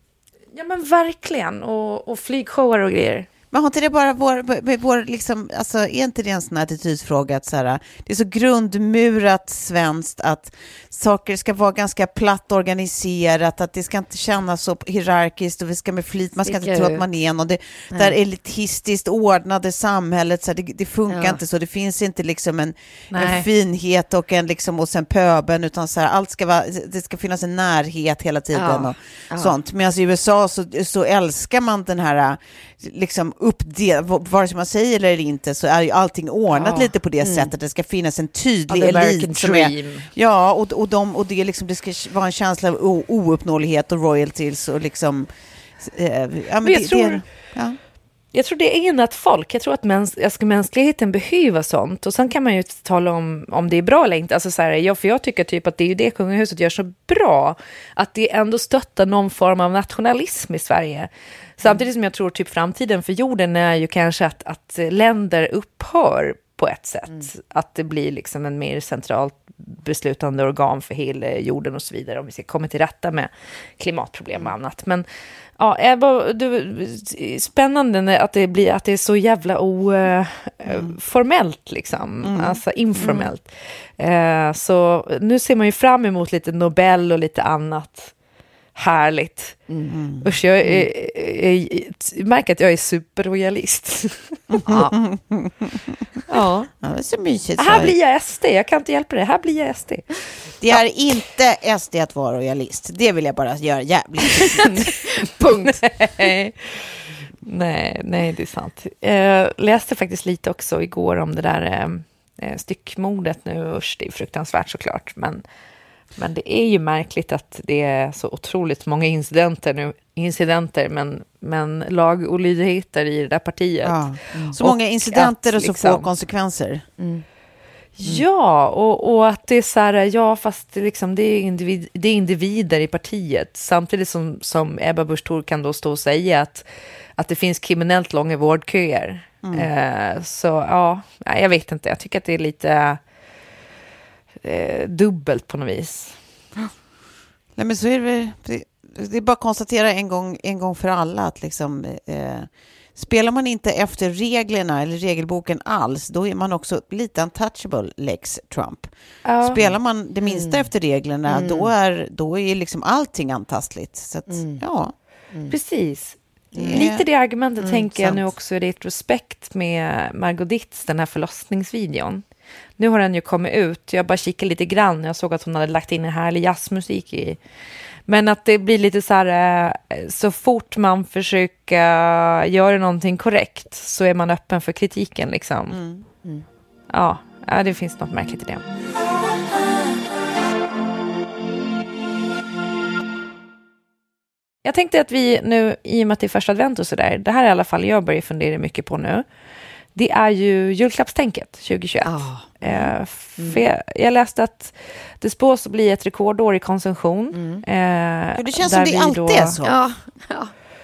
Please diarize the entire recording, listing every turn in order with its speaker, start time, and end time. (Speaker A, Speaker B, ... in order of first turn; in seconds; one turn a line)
Speaker A: 0.5-3.3
Speaker B: 3.5-47.8
Speaker C: 16.4-17.0
Speaker C: 21.1-21.4
Speaker A: 23.1-23.5
Speaker C: 28.5-29.6
Speaker A: 36.5-36.9
Speaker C: 37.2-37.5
Speaker A: 38.7-40.1
Speaker A: 46.6-47.2
Speaker A: 48.3-75.0
Speaker A: 75.6-88.1
Speaker B: 82.2-83.2
Speaker A: 88.8-89.7
Speaker C: 89.7-90.0
Speaker B: 89.9-90.9
Speaker A: 90.2-95.0
Speaker B: 94.5-96.0
Speaker A: 96.3-96.7
Speaker B: 96.8-98.0
Speaker A: 97.6-100.1
Speaker B: 100.6-104.8
Speaker C: 104.5-105.8
Speaker A: 105.7-106.9
Speaker A: 107.5-115.4
Speaker A: 116.2-124.0
Speaker B: 123.8-126.8
Speaker A: 124.6-126.1
Speaker C: 127.0-127.2
Speaker A: 128.0-136.7
Speaker A: 137.2-143.0
Speaker B: 139.4-139.7
Speaker A: 144.4-146.2
Speaker B: 147.6-164.9
Speaker A: 159.2-159.6
Speaker C: 160.3-160.7
Speaker C: 161.3-161.7
Speaker C: 164.3-164.6
Speaker A: 165.5-166.2
Speaker C: 166.5-166.9
Speaker B: 166.6-167.1
Speaker A: 166.7-172.2
Speaker C: 167.6-168.2
Speaker A: 172.8-177.4
Speaker A: 178.1-185.8
Speaker B: 185.7-186.1
Speaker A: 186.9-188.7
Speaker A: 194.6-199.2
Speaker A: 199.9-209.6
Speaker C: 202.1-202.5
Speaker C: 203.4-203.6
Speaker C: 207.3-207.6
Speaker B: 208.3-209.8
Speaker C: 209.7-210.5